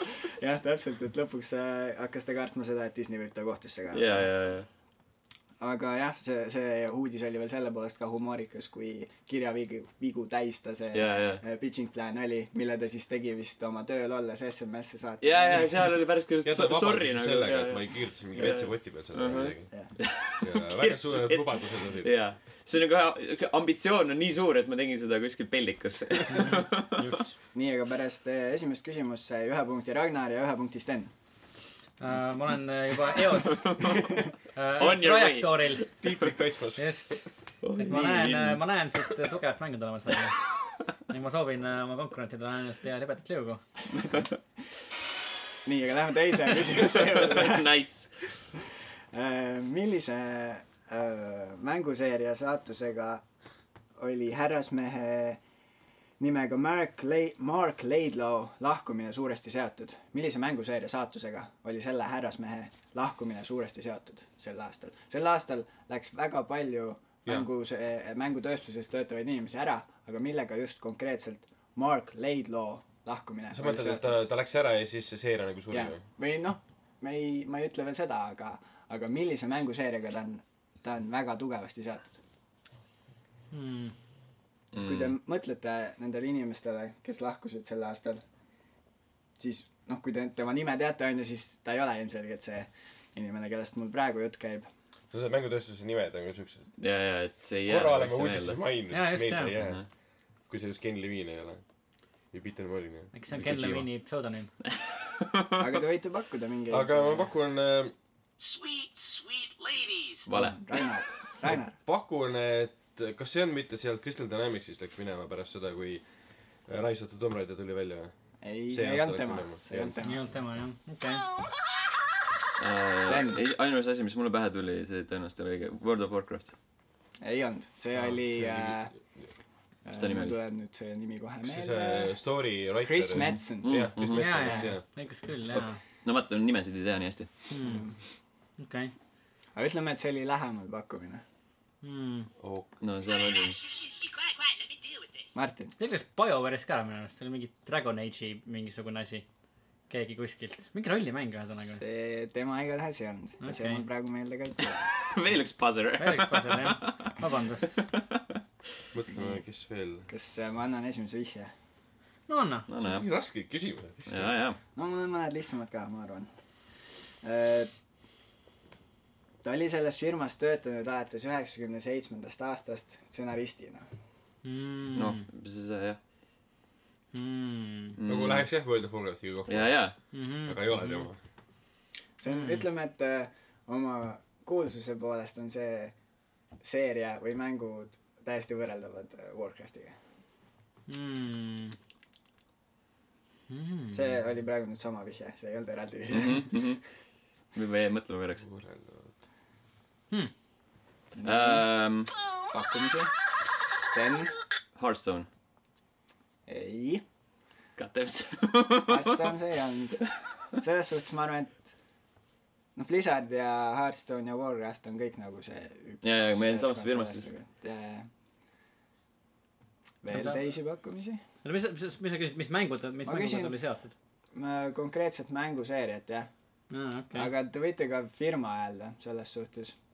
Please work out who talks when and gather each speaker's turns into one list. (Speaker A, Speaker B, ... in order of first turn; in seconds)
Speaker A: 0.3-4.3, 5.6-15.9, 27.5-31.1, 45.6-47.7, 49.1-53.2, 54.0-55.4, 56.2-74.2, 75.7-82.2, 84.8-88.2, 89.4-94.7, 105.6-107.3, 110.3-111.8, 118.4-120.2, 123.1-123.4, 127.2-128.9, 129.8-132.1, 132.8-134.7, 137.6-137.9, 139.5-141.2, 145.3-145.7, 151.7-154.9, 160.1-161.5, 164.7-166.3, 167.2-167.7, 169.4-173.9, 182.2-185.9, 186.6-189.9, 193.9-196.7, 201.2-201.7, 202.5-204.3, 206.5-207.0, 208.8-211.7, 212.8-218.1, 220.0-221.2, 223.0-223.6, 224.3-226.3, 227.1-229.8
Speaker B: 3.9-4.7, 10.9-11.4, 15.2-27.0, 33.5-34.2, 34.8-36.2, 37.6-38.5, 47.0-48.1, 84.7-85.1, 96.8-98.6, 99.6-99.8, 103.3-103.8, 104.6-105.7, 110.3-110.8, 122.6-126.5, 129.9-130.4, 133.6-134.5, 136.0-137.3, 142.8-143.6, 154.9-157.1, 157.9-158.2, 162.7-163.1, 164.1-164.6, 174.9-176.0, 178.0-178.5, 179.5-179.9, 196.1-196.8, 197.5-198.4, 201.2-202.1, 204.7-205.3, 207.8-209.3, 216.0-217.3
Speaker C: 16.4-19.7, 20.4-22.1, 36.0-36.8, 73.5-76.0, 95.1-96.7, 97.7-99.8, 100.5-101.6, 102.3-103.1, 106.7-107.9, 111.5-116.0, 116.7-118.1, 118.7-119.9, 127.9-128.8, 131.4-134.8, 142.4-142.8, 158.9-160.1, 162.8-164.4, 178.1-179.8, 180.4-181.2, 198.4-199.1
Speaker D: 26.3-27.3, 32.0-33.7, 34.5-35.9, 36.8-37.2, 37.8-40.4, 41.1-43.6, 83.5-83.9, 98.9-99.5, 103.1-104.5, 120.0-121.2, 134.1-135.8, 137.5-137.8, 138.6-138.9, 141.8-142.3, 145.8-149.2, 149.9-151.8, 153.4-153.8, 156.0-157.8, 162.3-162.7, 174.4-175.2, 177.1-178.0, 180.1-181.0, 182.3-182.6, 190.9-191.8, 193.5-194.0, 220.1-220.4, 221.4-223.9, 226.7-227.3
Speaker E: 108.4-110.3, 143.1-145.3